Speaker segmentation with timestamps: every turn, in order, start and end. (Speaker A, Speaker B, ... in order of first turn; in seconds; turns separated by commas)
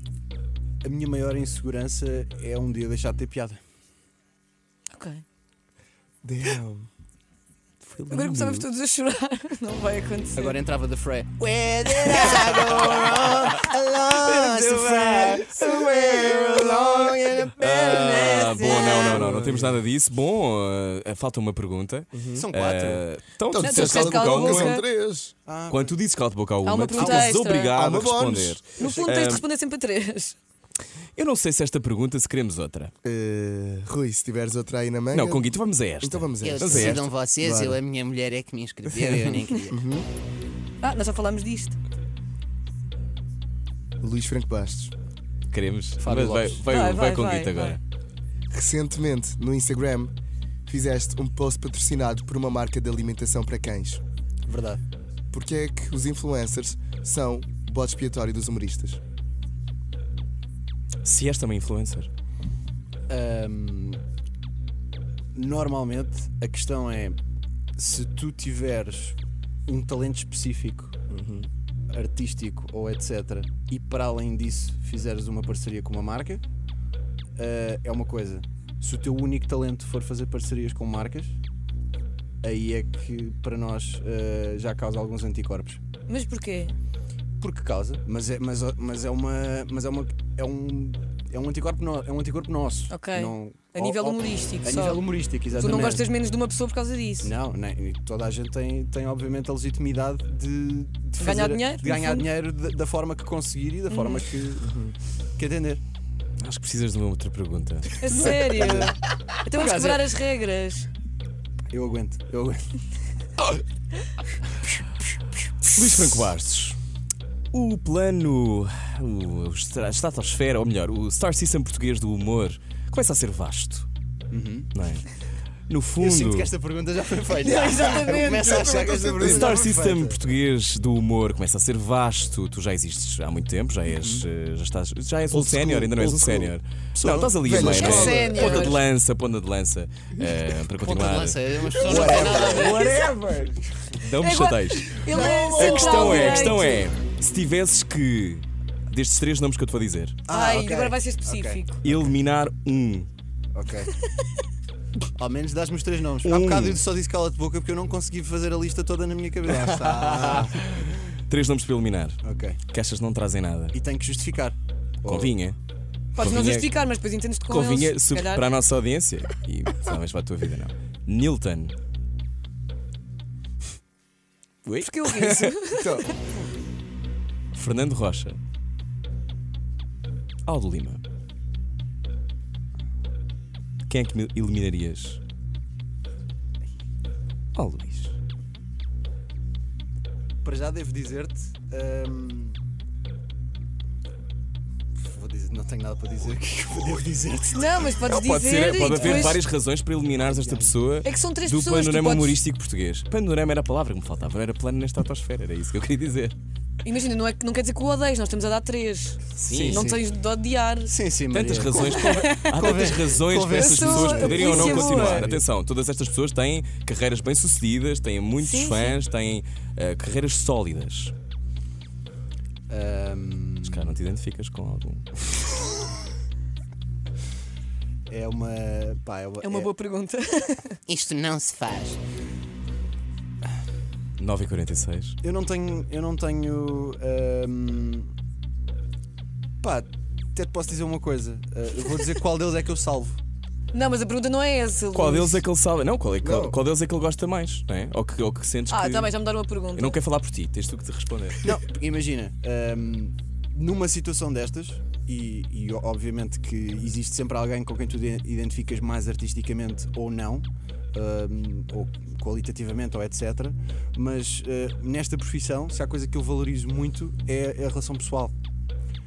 Speaker A: 0.8-3.6, Speaker B: 4.9-5.2, Speaker C: 6.2-6.9, Speaker D: 7.8-8.7, Speaker B: 8.1-10.6, Speaker A: 10.3-13.3, Speaker D: 11.9-24.8, Speaker E: 12.0-15.4, Speaker B: 12.1-12.5, Speaker A: 14.1-15.8, Speaker E: 16.0-19.1, Speaker B: 18.0-19.2, Speaker C: 19.1-19.8, Speaker C: 22.1-22.5, Speaker A: 22.4-23.0, Speaker C: 23.5-25.3, Speaker B: 23.6-24.9, Speaker A: 25.5-26.0, Speaker D: 25.7-29.4, Speaker B: 26.6-27.8, Speaker A: 27.0-27.3, Speaker C: 27.7-28.6, Speaker B: 28.8-30.4, Speaker A: 28.8-29.1, Speaker D: 31.2-32.9, Speaker C: 33.0-37.8, Speaker D: 35.1-37.1, Speaker E: 36.4-39.8, Speaker C: 39.7-40.1, Speaker B: 40.8-41.8, Speaker C: 44.0-44.9, Speaker D: 45.5-47.8, Speaker A: 46.0-46.6, Speaker B: 46.7-47.8, Speaker C: 48.5-50.1, Speaker C: 50.7-54.0, Speaker A: 54.5-54.8, Speaker C: 55.3-59.0, Speaker D: 61.0-62.1, Speaker A: 63.1-64.0, Speaker A: 65.3-67.2, Speaker A: 67.8-71.0, Speaker C: 71.1-71.4, Speaker A: 71.9-76.4, Speaker A: 77.4-81.4, Speaker A: 82.4-85.8, Speaker B: 86.1-86.7, Speaker A: 87.4-96.1, Speaker B: 92.9-97.3, Speaker A: 97.2-104.8, Speaker B: 101.2-102.3, Speaker B: 103.9-104.3, Speaker C: 104.6-104.9, Speaker A: 105.4-105.8, Speaker D: 106.4-108.4, Speaker B: 108.0-110.9, Speaker A: 108.3-109.0, Speaker A: 109.5-110.2, Speaker A: 111.7-112.7, Speaker D: 115.7-116.8, Speaker D: 117.5-123.9, Speaker A: 124.3-124.7, Speaker D: 124.7-125.1, Speaker D: 125.7-126.5, Speaker A: 126.0-130.2, Speaker B: 127.4-129.0, Speaker C: 127.5-129.6, Speaker D: 129.2-143.3, Speaker C: 133.9-134.2, Speaker C: 135.3-136.6, Speaker A: 137.0-137.4, Speaker C: 137.3-138.8, Speaker B: 137.5-138.8, Speaker A: 140.8-143.0, Speaker E: 141.0-142.8, Speaker C: 141.8-143.6, Speaker B: 142.2-142.9, Speaker D: 144.0-150.2, Speaker B: 144.2-146.9, Speaker C: 145.1-146.8, Speaker A: 150.3-151.6, Speaker B: 150.3-151.8, Speaker D: 151.8-153.1, Speaker A: 153.5-153.9, Speaker A: 155.2-160.8, Speaker D: 156.2-156.8, Speaker D: 159.9-163.8, Speaker A: 162.2-162.6, Speaker A: 163.7-165.3, Speaker D: 165.1-165.6, Speaker B: 166.2-168.5, Speaker D: 166.2-166.7, Speaker D: 167.5-171.8, Speaker D: 174.7-175.6, Speaker B: 174.8-176.2, Speaker C: 175.8-176.1, Speaker D: 177.5-178.4, Speaker D: 180.4-181.0, Speaker D: 183.8-185.2, Speaker D: 187.6-188.2, Speaker A: 190.4-192.6, Speaker A: 195.0-198.0, Speaker B: 197.5-199.4, Speaker D: 198.1-206.3, Speaker A: 198.8-199.4, Speaker A: 200.2-200.8, Speaker B: 201.0-202.4, Speaker B: 206.8-210.9, Speaker D: 209.4-209.9, Speaker A: 209.4-210.0, Speaker A: 210.9-215.4, Speaker D: 211.3-221.1, Speaker B: 212.0-212.7, Speaker B: 213.5-215.3, Speaker B: 218.4-219.0, Speaker A: 222.7-224.0, Speaker D: 223.7-225.1, Speaker A: 228.1-229.7, Speaker B: 229.4-230.8, Speaker E: 230.9-232.0, Speaker D: 234.2-235.2, Speaker A: 235.2-238.1, Speaker A: 239.6-243.2, Speaker B: 243.7-245.4, Speaker D: 244.9-249.1, Speaker C: 246.2-246.6, Speaker B: 248.7-250.0, Speaker D: 249.7-251.4, Speaker A: 251.4-268.3